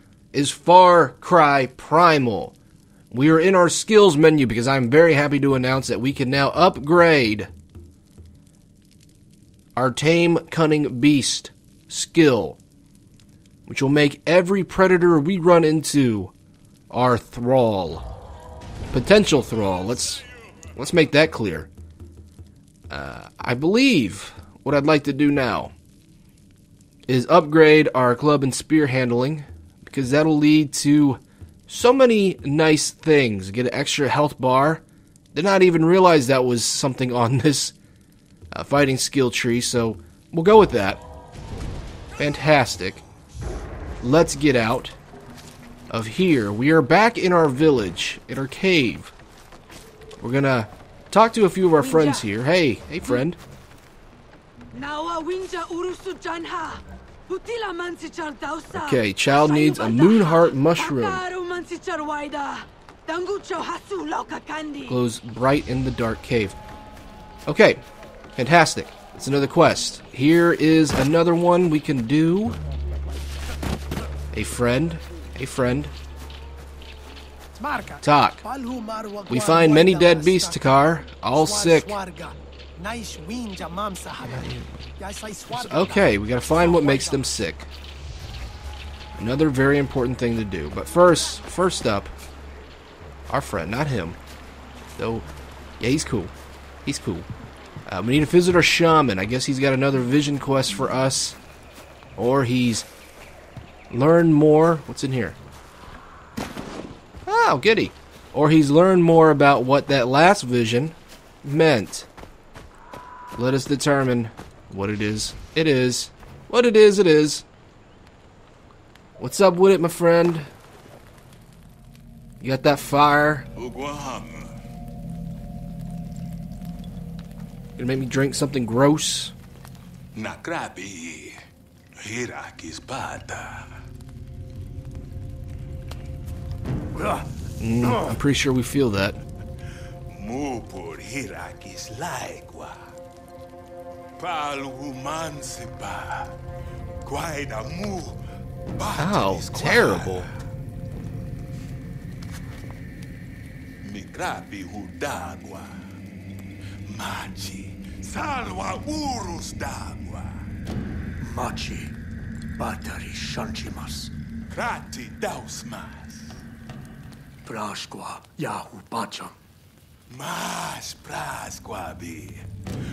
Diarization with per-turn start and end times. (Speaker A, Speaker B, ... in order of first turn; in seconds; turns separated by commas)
Speaker A: 0.3-2.5, Speaker A: 3.1-7.5, Speaker A: 9.8-12.6, Speaker A: 13.7-16.3, Speaker A: 16.9-18.1, Speaker A: 18.9-21.7, Speaker A: 22.9-25.7, Speaker A: 27.1-34.8, Speaker A: 35.3-37.7, Speaker A: 38.5-41.0, Speaker A: 42.2-43.0, Speaker A: 44.0-44.9, Speaker A: 45.9-49.1, Speaker A: 50.2-53.4, Speaker B: 51.8-52.3, Speaker B: 54.7-65.0, Speaker A: 58.7-61.2, Speaker A: 64.8-66.6, Speaker A: 67.5-67.8, Speaker A: 68.3-72.6, Speaker A: 74.3-75.9, Speaker B: 77.5-80.7, Speaker A: 78.0-78.4, Speaker A: 79.3-82.0, Speaker B: 81.3-84.5, Speaker A: 84.2-84.7, Speaker B: 85.0-87.2, Speaker A: 85.5-87.7, Speaker A: 89.2-92.1, Speaker A: 93.3-94.2, Speaker A: 95.0-95.3, Speaker A: 95.8-96.3, Speaker A: 96.8-97.3, Speaker A: 97.9-101.4, Speaker A: 102.2-102.9, Speaker A: 103.9-105.4, Speaker A: 107.2-112.1, Speaker A: 113.3-117.5, Speaker A: 119.2-120.5, Speaker A: 122.4-123.5, Speaker C: 123.5-124.5, Speaker A: 127.8-129.3, Speaker C: 130.1-131.4, Speaker C: 132.0-133.8, Speaker A: 137.6-139.2, Speaker C: 140.1-142.9, Speaker C: 144.2-146.3, Speaker C: 147.0-148.2, Speaker C: 148.8-150.3, Speaker A: 149.0-150.3, Speaker C: 153.8-155.9, Speaker C: 156.8-160.4, Speaker B: 161.2-161.9, Speaker B: 162.6-164.1, Speaker C: 164.5-166.4, Speaker B: 167.4-169.3, Speaker C: 170.1-172.4